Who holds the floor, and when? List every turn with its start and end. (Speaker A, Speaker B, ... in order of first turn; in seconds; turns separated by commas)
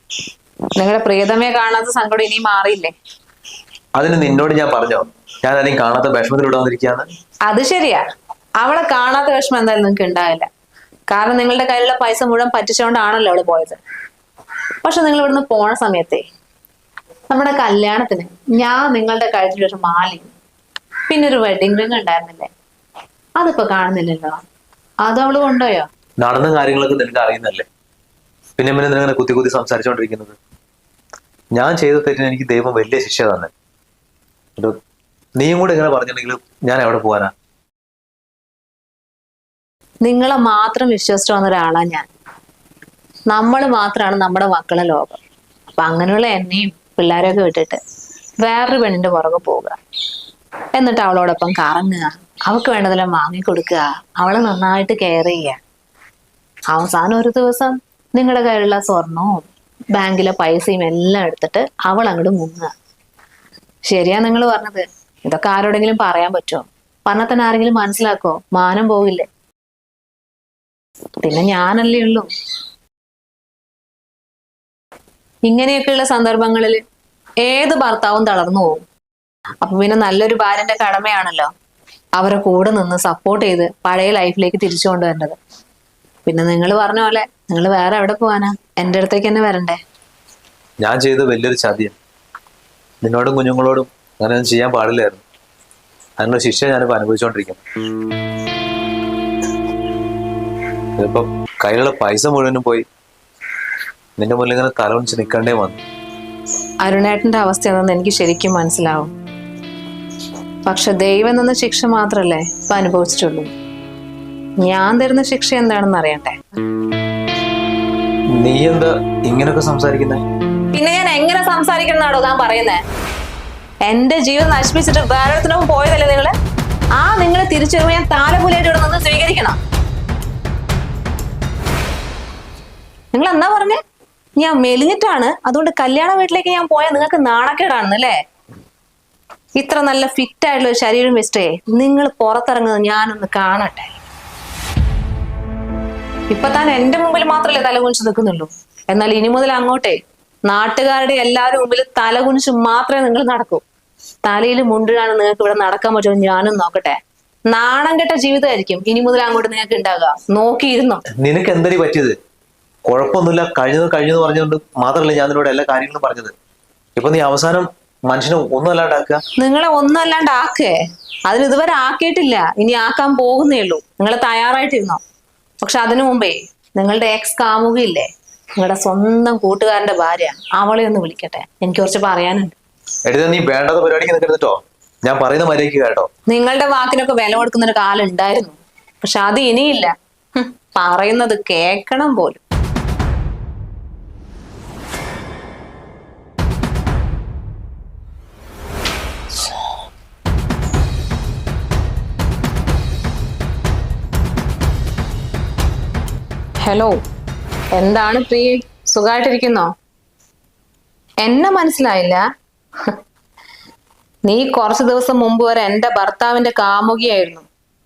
Speaker A: 0.8-2.9, Speaker B: 4.0-7.1, Speaker A: 7.5-8.0, Speaker A: 8.6-10.5, Speaker A: 11.1-13.8, Speaker A: 14.8-16.2, Speaker A: 17.3-20.3, Speaker A: 21.1-22.5, Speaker A: 23.4-24.4, Speaker A: 25.0-25.9, Speaker B: 26.2-27.7, Speaker B: 28.6-30.4, Speaker B: 31.6-33.5, Speaker B: 35.4-37.3, Speaker A: 40.0-42.1, Speaker A: 43.3-45.2, Speaker A: 45.7-47.8, Speaker A: 48.4-49.8, Speaker A: 50.8-55.6, Speaker A: 56.7-62.7, Speaker A: 63.9-69.3, Speaker A: 71.2-72.3, Speaker A: 75.5-76.8, Speaker A: 77.4-78.8, Speaker A: 79.6-81.5, Speaker A: 82.2-85.4, Speaker A: 86.3-89.8, Speaker B: 90.8-92.0, Speaker B: 93.0-95.2, Speaker B: 96.2-97.6, Speaker B: 101.0-102.8, Speaker B: 104.2-105.8, Speaker A: 106.8-109.1, Speaker A: 110.7-113.5, Speaker A: 114.6-116.4, Speaker B: 118.4-120.2, Speaker A: 120.7-122.8, Speaker A: 123.9-126.3, Speaker A: 127.0-129.6, Speaker A: 133.1-133.8, Speaker A: 134.4-138.2, Speaker A: 139.6-144.0, Speaker A: 146.3-150.0, Speaker A: 150.5-153.6, Speaker A: 154.3-157.0, Speaker A: 157.5-161.0, Speaker B: 161.2-162.2, Speaker B: 162.9-166.3, Speaker B: 167.0-169.2, Speaker A: 169.4-170.8, Speaker A: 171.3-175.0, Speaker A: 175.6-182.6, Speaker B: 183.1-186.1, Speaker A: 186.3-192.4, Speaker A: 206.6-207.0, Speaker A: 207.8-209.7, Speaker A: 211.2-212.2, Speaker A: 214.3-217.5